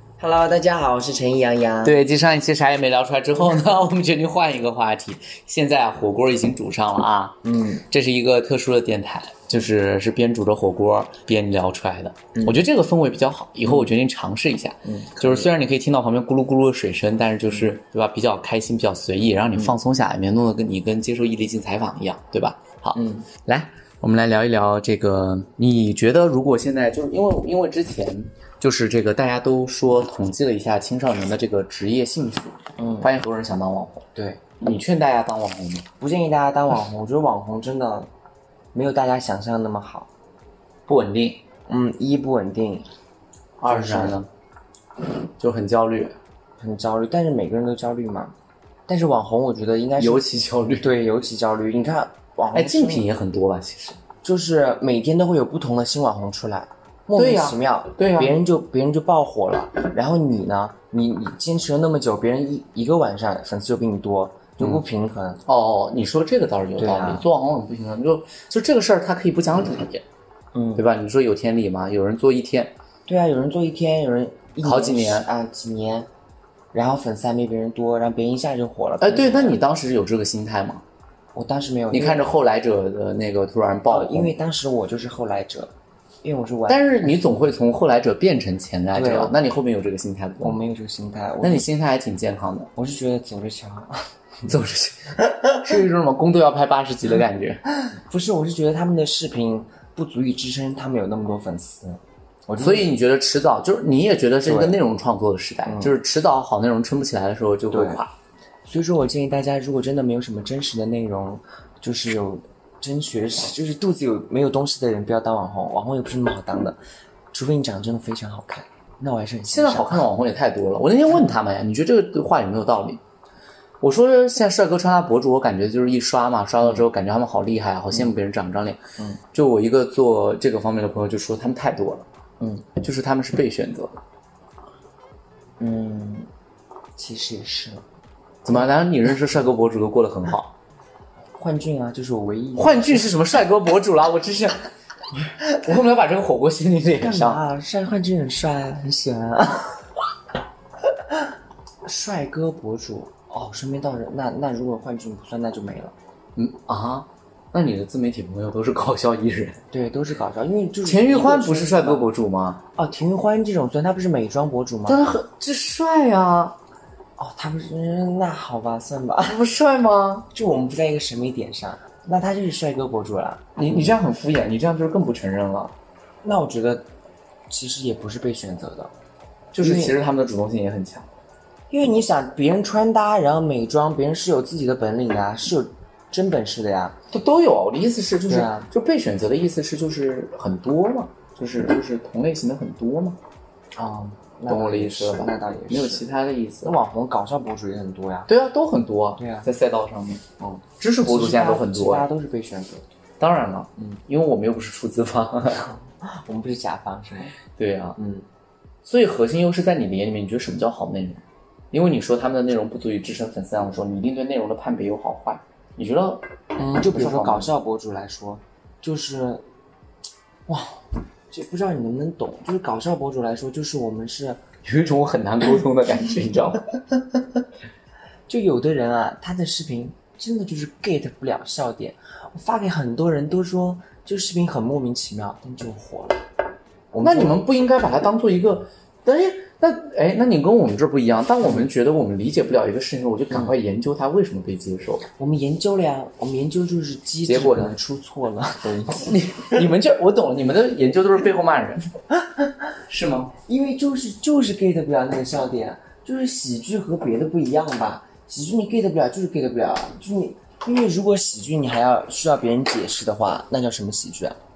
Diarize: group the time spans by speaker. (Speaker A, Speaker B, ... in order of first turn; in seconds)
Speaker A: 0.2-2.0, 7.4-7.8, 12.3-12.6, 13.7-13.9, 14.8-15.5, 22.9-23.3, 32.8-33.1, 34.1-34.4, 36.0-38.1, 38.7-40.1, 41.7-42.9, 43.6-44.2, 46.6-48.4, 48.9-53.1, 54.2-65.4, 66.8-67.3, 70.5-70.9, 73.1-76.1, 76.7-79.6, 81.3-82.3, 83.9-85.7, 86.2-87.3, 88.9-89.4, 90.4-91.7, 92.8-94.0, 97.9-102.9, 104.4-104.8, 105.7-105.9, 107.7-108.0, 108.7-116.8, 117.3-120.1, 132.4-132.7, 135.6-136.3, 137.0-137.8, 141.4-143.1, 147.0-149.9, 151.8-155.9, 159.7-162.1, 162.8-165.1, 167.2-169.4, 170.3-174.0, 176.2-176.9, 177.5-178.9, 179.6-180.0, 181.7-187.0, 188.3-188.7, 193.8-196.1, 196.6-198.3, 199.2-199.5, 200.4-202.9, 205.8-207.4, 208.0-208.3, 216.6-219.4, 220.5-220.8, 221.3-224.4, 228.3-236.2, 236.9-237.4, 243.3-243.6, 245.2-249.7, 252.1-252.7, 253.4-264.4
Speaker B: 1.8-34.1, 34.6-35.9, 40.9-41.4, 43.6-44.3, 45.4-46.2, 50.0-50.9, 52.5-54.0, 57.2-58.4, 65.5-70.0, 70.8-72.8, 74.6-75.3, 79.0-80.8, 81.9-84.4, 86.7-90.6, 91.4-92.7, 94.5-97.6, 102.6-108.2, 119.5-123.0, 123.8-128.8, 129.3-132.1, 132.8-134.0, 138.4-140.5, 142.6-144.6, 145.4-147.4, 156.4-159.6, 160.8-162.6, 164.9-166.6, 169.2-170.3, 173.6-175.7, 179.5-181.1, 187.1-193.2, 194.5-196.7, 198.3-200.2, 200.8-202.1, 203.2-205.7, 207.5-208.0, 208.8-216.2, 216.9-217.5, 224.6-226.7, 237.0-245.1, 247.3-247.8, 249.1-251.9, 252.9-253.3